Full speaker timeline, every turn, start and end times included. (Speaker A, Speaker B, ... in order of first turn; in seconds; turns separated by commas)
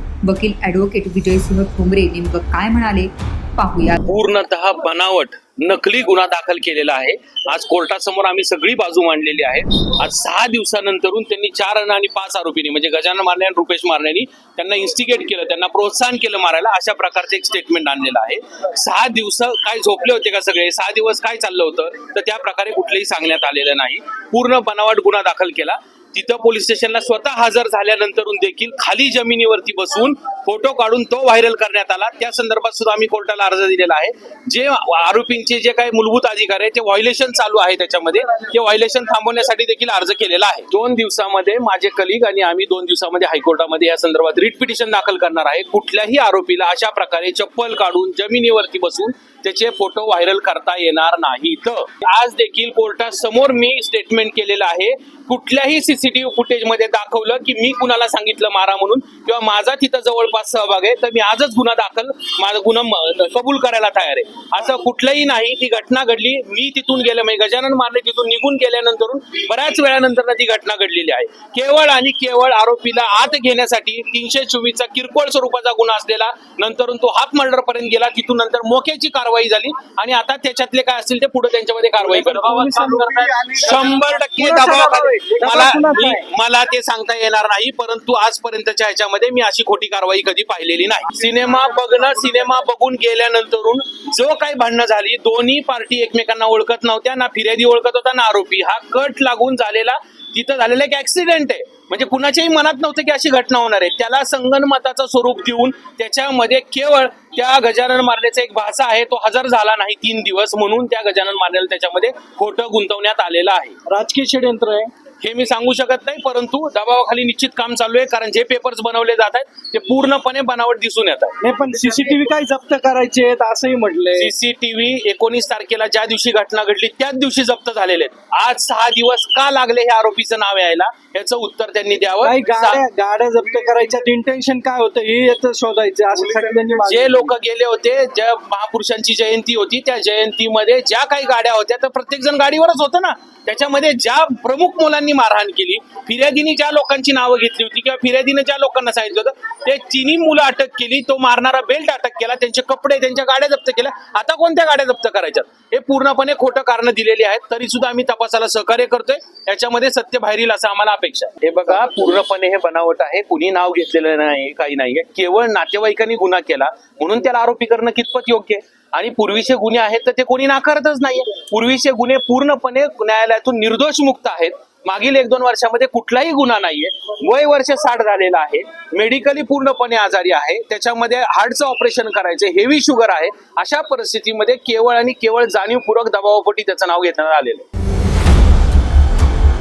Speaker A: 0.2-4.0, Speaker B: 4.0-113.8, Speaker C: 82.0-86.2, Speaker C: 113.9-114.9, Speaker B: 115.2-121.4, Speaker C: 121.4-124.3, Speaker B: 124.1-132.8, Speaker C: 132.2-137.3, Speaker B: 136.8-187.6